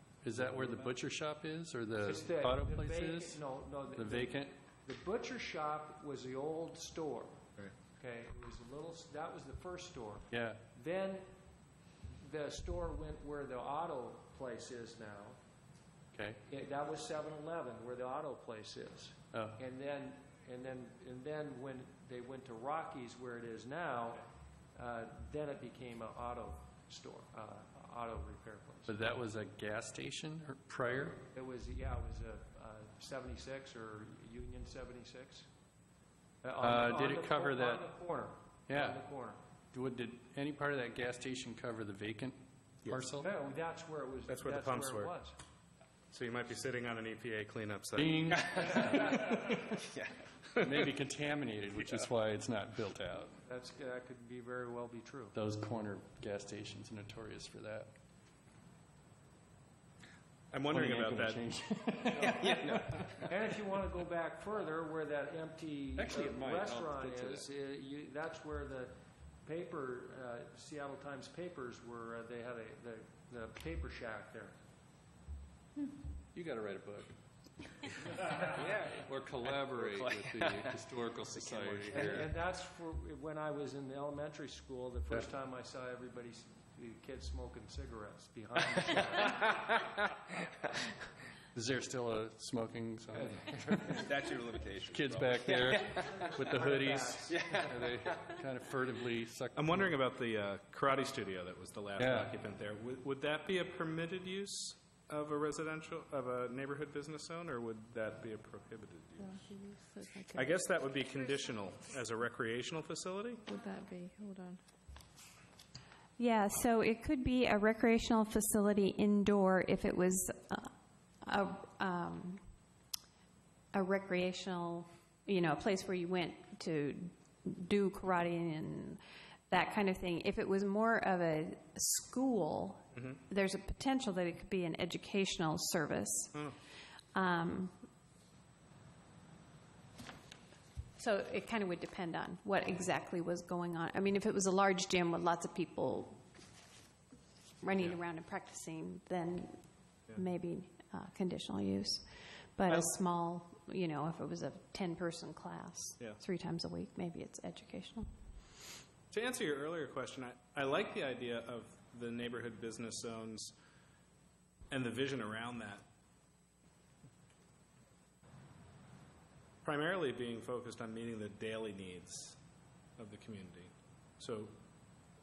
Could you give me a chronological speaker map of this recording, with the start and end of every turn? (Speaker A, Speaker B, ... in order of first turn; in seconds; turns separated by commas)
Speaker A: 0.2-3.4, Speaker B: 2.0-11.2, Speaker A: 3.9-4.5, Speaker A: 10.3-10.6, Speaker B: 12.2-15.4, Speaker A: 16.1-16.4, Speaker B: 16.5-28.9, Speaker A: 19.3-19.6, Speaker A: 28.9-31.2, Speaker B: 31.3-35.5, Speaker B: 36.4-39.4, Speaker A: 36.6-37.8, Speaker A: 38.7-39.0, Speaker A: 39.7-43.3, Speaker B: 43.1-45.4, Speaker C: 44.3-45.1, Speaker C: 46.1-48.2, Speaker A: 48.0-49.7, Speaker D: 48.3-50.2, Speaker C: 50.6-50.9, Speaker A: 50.6-53.4, Speaker B: 53.5-55.3, Speaker A: 55.3-57.9, Speaker C: 60.5-61.4, Speaker A: 60.7-63.0, Speaker D: 62.2-63.2, Speaker B: 63.3-68.9, Speaker A: 66.0-67.5, Speaker B: 69.4-74.5, Speaker A: 75.9-77.1, Speaker A: 77.8-82.3, Speaker D: 78.6-82.2, Speaker B: 81.9-89.5, Speaker A: 91.5-94.0, Speaker B: 93.1-93.9, Speaker D: 93.8-96.2, Speaker A: 94.9-99.9, Speaker B: 95.9-97.6, Speaker D: 97.3-98.3, Speaker C: 99.5-109.4, Speaker A: 102.0-102.3, Speaker E: 109.2-110.7, Speaker C: 110.3-113.4, Speaker E: 113.4-114.6, Speaker F: 116.2-120.7, Speaker F: 121.2-122.4, Speaker F: 123.7-136.4, Speaker F: 137.1-137.8, Speaker F: 141.0-146.2, Speaker F: 147.6-152.1, Speaker F: 152.6-158.1, Speaker C: 159.1-163.5, Speaker C: 164.7-165.8, Speaker C: 169.6-172.4, Speaker C: 173.0-174.5